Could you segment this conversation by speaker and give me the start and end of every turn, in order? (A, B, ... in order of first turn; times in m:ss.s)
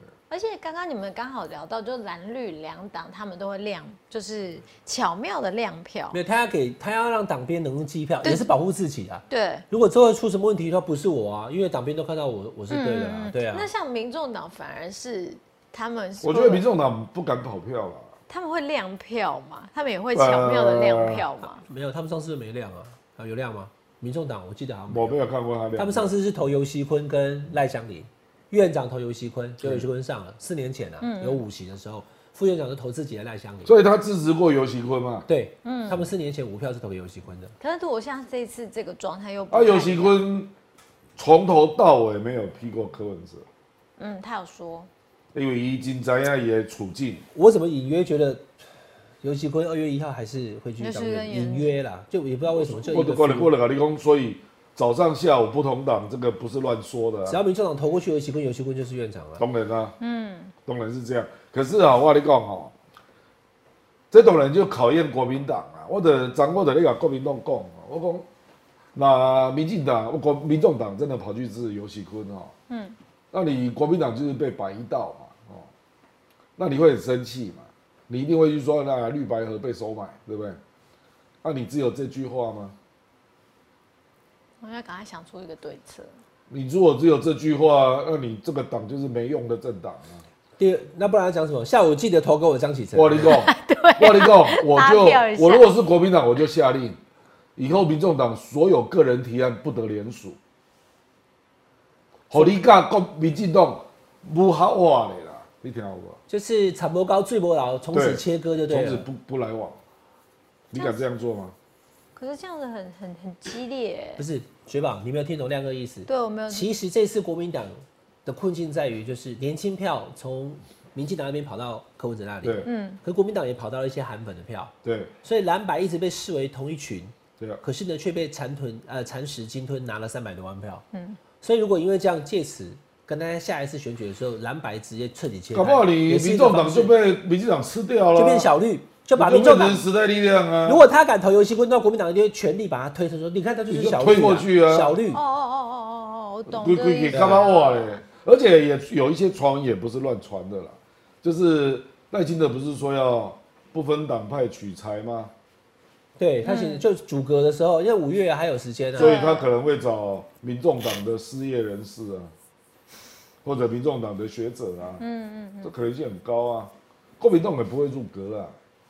0:00.3-0:06.2 A
0:06.1-0:13.7 B
0:08.2-0:08.5 A
0:09.3-0:09.6 A
0:12.7-0:16.6 A
0:16.2-0:18.1 C
0:18.3-0:21.6 A
0:20.1-0:21.3 C
0:21.4-0:25.2 B
0:24.9-0:26.1 C
0:25.8-0:33.8 B
0:31.0-0:31.4 A
0:33.6-0:35.2 C
0:35.3-0:37.5 B
0:35.6-0:36.0 A
0:37.6-0:40.2 A
0:39.5-0:40.5 C
0:41.2-0:43.4 C
0:44.0-0:44.9 A
0:45.3-0:47.2 C
0:47.3-0:48.5 B
0:49.2-0:53.5 B
0:50.8-0:51.8 A
0:52.5-0:57.4 C
0:57.3-0:59.4 B
0:59.4-1:00.0 C
1:00.0-1:00.5 A
1:00.6-1:02.7 C
1:04.1-1:08.2 C
1:08.9-1:12.5 C
1:12.7-1:13.0 A
1:13.3-1:15.7 C
1:16.6-1:20.6 C
1:21.4-1:22.7 C
1:24.6-1:26.1 A
1:26.5-1:30.2 C
1:30.6-1:33.4 B
1:32.9-1:37.0 C
1:33.3-1:35.7 A
1:37.6-1:40.4 C
1:42.3-1:46.2 C
1:46.3-1:49.1 B
1:47.9-1:49.8 C
1:50.7-1:51.5 C
1:50.7-1:51.0 A
1:52.2-1:54.2 A
1:54.2-2:10.8 B
1:56.1-1:56.7 A
2:02.4-2:02.7 C
2:02.6-2:03.0 A
2:04.8-2:05.1 C
2:10.9-2:11.2 A
2:11.4-2:16.9 B
2:15.5-2:18.5 C
2:18.1-2:19.8 B
2:19.1-2:20.8 C
2:20.6-2:25.2 B
2:23.7-2:25.0 C
2:25.1-2:28.0 A
2:26.5-2:35.3 C
2:27.1-2:27.4 B
2:36.2-2:39.2 B
2:36.4-2:36.8 A
2:39.0-2:39.5 A
2:39.0-2:42.3 C
2:43.4-2:45.0 C
2:45.0-2:45.7 A
2:45.6-2:48.5 C